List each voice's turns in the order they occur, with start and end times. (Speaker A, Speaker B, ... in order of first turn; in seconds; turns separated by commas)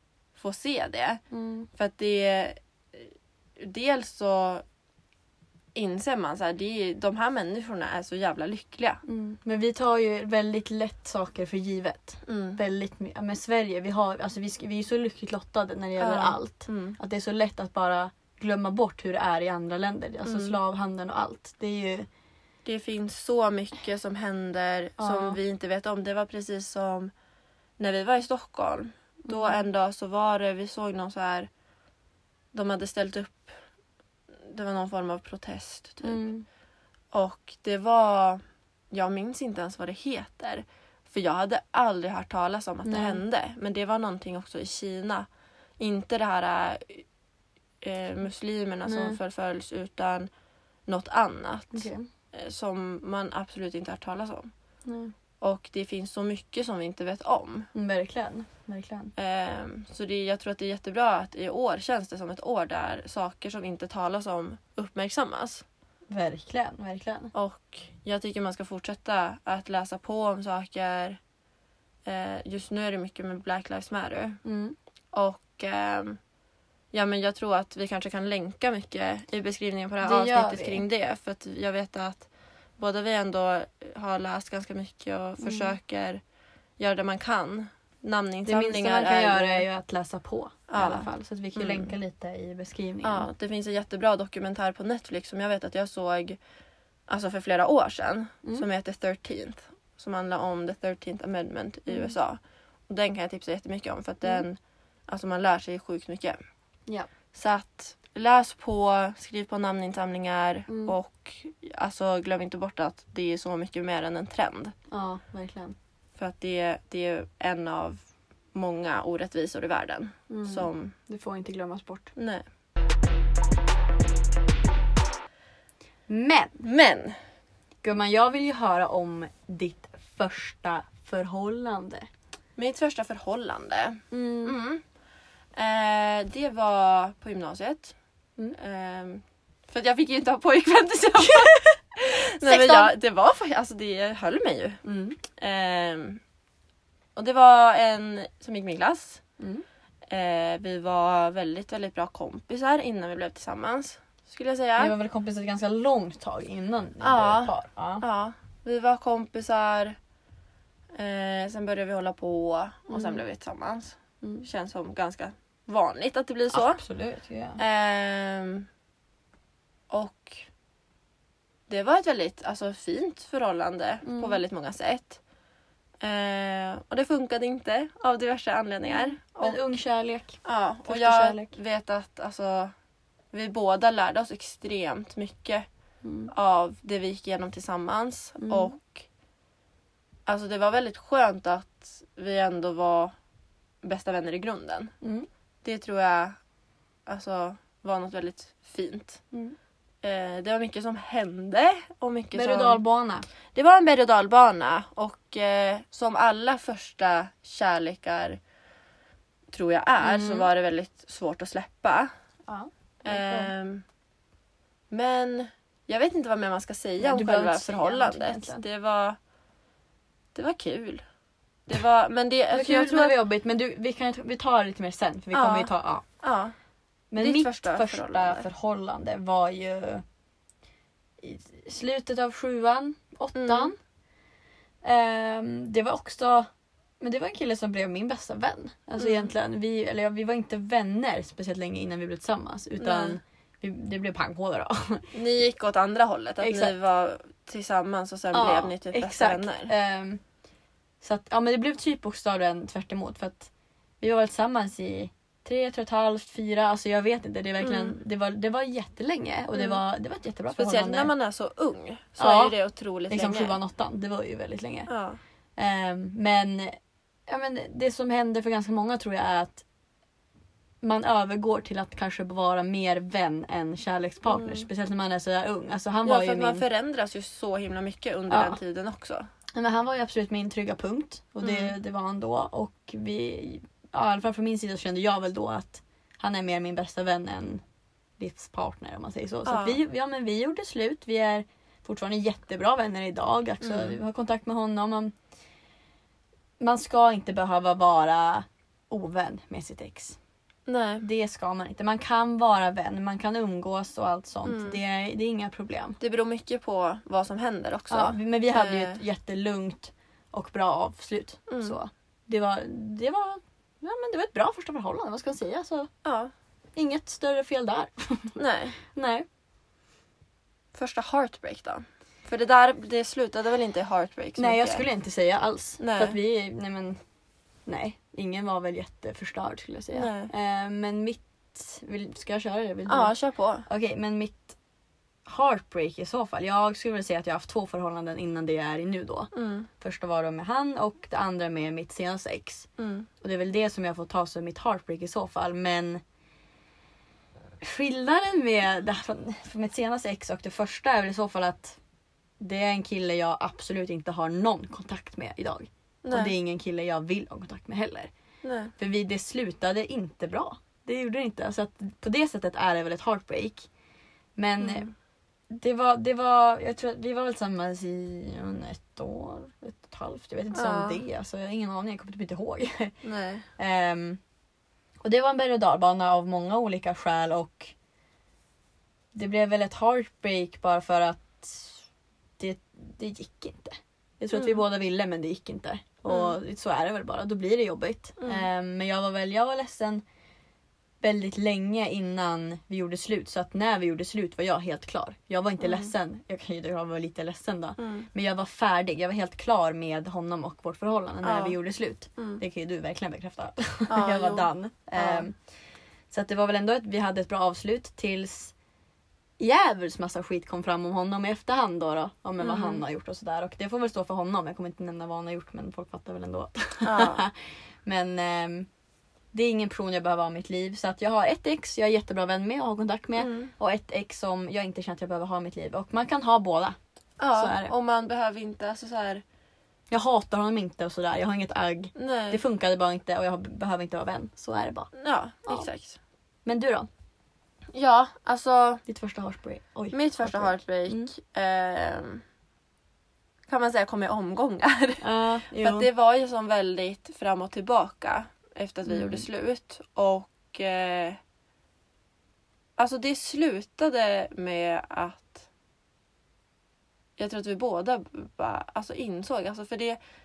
Speaker A: 0.3-1.2, Speaker B: 1.3-1.7, Speaker A: 1.7-4.6, Speaker A: 5.8-9.0, Speaker B: 9.1-22.1, Speaker A: 12.2-12.6, Speaker A: 16.0-17.0, Speaker A: 20.2-20.6, Speaker A: 22.6-27.1, Speaker B: 25.0-25.4, Speaker A: 27.8-31.5, Speaker B: 29.3-29.7, Speaker A: 32.5-33.5, Speaker A: 34.5-36.3, Speaker B: 36.0-36.5, Speaker A: 37.1-45.3, Speaker B: 42.9-43.2, Speaker A: 45.8-47.0, Speaker A: 47.8-50.3, Speaker B: 48.9-49.2, Speaker A: 50.9-54.5, Speaker B: 51.7-52.1, Speaker B: 54.9-55.1, Speaker A: 55.4-57.7, Speaker B: 57.7-59.1, Speaker A: 59.2-65.7, Speaker B: 66.1-67.3, Speaker A: 67.3-71.2, Speaker A: 72.1-74.4, Speaker B: 74.4-74.8, Speaker A: 75.1-76.2, Speaker A: 76.9-86.2, Speaker B: 80.0-80.8, Speaker B: 85.4-85.8, Speaker A: 86.8-89.7, Speaker B: 88.5-93.3, Speaker A: 90.7-91.9, Speaker A: 93.0-96.4, Speaker A: 97.1-106.4, Speaker A: 107.3-114.7, Speaker B: 110.7-111.0, Speaker B: 114.9-115.8, Speaker A: 116.2-118.0, Speaker A: 118.5-120.9, Speaker B: 120.3-122.1, Speaker A: 122.2-122.4, Speaker B: 126.1-126.6, Speaker A: 126.6-127.2, Speaker B: 127.8-132.1, Speaker A: 132.6-134.8, Speaker B: 134.1-134.6, Speaker A: 135.6-137.9, Speaker A: 138.6-146.2, Speaker B: 141.2-141.8, Speaker B: 142.4-142.9, Speaker B: 144.8-145.2, Speaker A: 147.2-149.2, Speaker A: 150.1-154.9, Speaker B: 154.8-158.0, Speaker A: 157.0-160.0, Speaker A: 160.9-166.8, Speaker B: 162.9-163.2, Speaker B: 166.5-167.6, Speaker A: 167.6-168.7, Speaker A: 169.9-170.4, Speaker A: 171.7-175.2, Speaker B: 174.0-174.4, Speaker A: 176.0-179.6, Speaker B: 179.4-181.6, Speaker A: 180.4-182.7, Speaker A: 183.3-185.7, Speaker B: 186.0-186.3, Speaker A: 186.3-189.1, Speaker B: 188.4-188.8, Speaker A: 190.3-193.1, Speaker A: 193.8-194.9, Speaker B: 195.0-195.3, Speaker A: 195.6-196.4, Speaker A: 197.1-199.2, Speaker A: 200.0-202.8, Speaker B: 202.3-203.3, Speaker A: 203.5-208.4, Speaker A: 209.5-212.1, Speaker B: 210.0-210.5, Speaker B: 212.5-213.5, Speaker A: 213.0-213.8, Speaker A: 214.9-219.2, Speaker B: 217.0-218.7, Speaker A: 220.3-221.0, Speaker A: 221.7-223.2, Speaker B: 222.5-226.1, Speaker A: 225.3-225.7, Speaker A: 226.2-226.5, Speaker B: 227.1-230.0, Speaker A: 227.2-228.5, Speaker B: 231.2-233.8, Speaker A: 233.3-233.8, Speaker B: 234.8-245.1, Speaker A: 239.0-239.3, Speaker A: 242.8-243.2, Speaker A: 245.1-249.7, Speaker B: 246.4-246.8, Speaker B: 248.3-250.2, Speaker B: 251.0-261.1, Speaker A: 257.6-258.0, Speaker A: 259.5-259.8, Speaker A: 260.5-263.6, Speaker B: 262.2-262.6, Speaker B: 263.1-264.9, Speaker A: 264.9-265.2, Speaker B: 265.6-269.6, Speaker B: 270.8-276.6, Speaker A: 274.3-274.7, Speaker A: 276.0-279.3, Speaker B: 278.3-278.6, Speaker B: 279.5-287.6, Speaker A: 281.4-281.7, Speaker B: 288.2-295.1, Speaker A: 289.5-289.8, Speaker A: 293.6-294.0, Speaker B: 296.6-300.2, Speaker A: 300.7-301.1, Speaker B: 301.0-306.0, Speaker A: 304.4-304.8, Speaker A: 306.0-309.0, Speaker B: 307.9-315.9, Speaker A: 311.5-311.8, Speaker A: 316.0-316.3, Speaker B: 316.8-319.3, Speaker A: 318.4-318.8, Speaker A: 320.7-324.9, Speaker B: 324.4-327.0, Speaker A: 325.8-326.2, Speaker B: 327.7-333.1, Speaker A: 329.9-330.3, Speaker A: 332.9-333.6, Speaker B: 333.7-334.6, Speaker B: 335.3-342.7, Speaker A: 339.3-339.7, Speaker A: 342.8-343.1, Speaker B: 343.2-346.0, Speaker B: 347.6-351.8, Speaker B: 352.4-358.1, Speaker A: 356.0-356.3, Speaker A: 358.4-358.7, Speaker B: 358.8-363.7, Speaker B: 364.4-364.9, Speaker A: 364.6-364.9, Speaker B: 365.5-373.0, Speaker A: 370.5-371.0, Speaker A: 373.0-373.5, Speaker B: 373.6-374.2, Speaker B: 375.0-377.7, Speaker B: 379.1-381.8, Speaker B: 382.4-390.0, Speaker A: 384.3-384.6, Speaker A: 386.1-386.4, Speaker A: 388.2-388.5, Speaker B: 391.0-405.4, Speaker A: 395.6-395.9, Speaker A: 397.8-398.1, Speaker A: 401.2-401.6, Speaker A: 402.2-402.4, Speaker A: 403.9-405.3, Speaker B: 406.1-408.5, Speaker B: 409.4-417.3, Speaker A: 412.4-412.8, Speaker A: 416.8-417.2, Speaker B: 417.9-418.7, Speaker B: 419.3-426.8, Speaker A: 423.2-423.5, Speaker A: 427.2-429.2, Speaker B: 427.3-427.7, Speaker B: 429.9-434.9, Speaker A: 432.0-432.4, Speaker A: 434.9-436.0, Speaker B: 436.4-436.9, Speaker A: 437.7-438.8, Speaker B: 438.9-441.1, Speaker A: 439.9-442.2, Speaker A: 443.5-451.2, Speaker B: 445.0-445.9, Speaker B: 448.9-449.3, Speaker A: 452.8-455.5, Speaker A: 457.2-460.0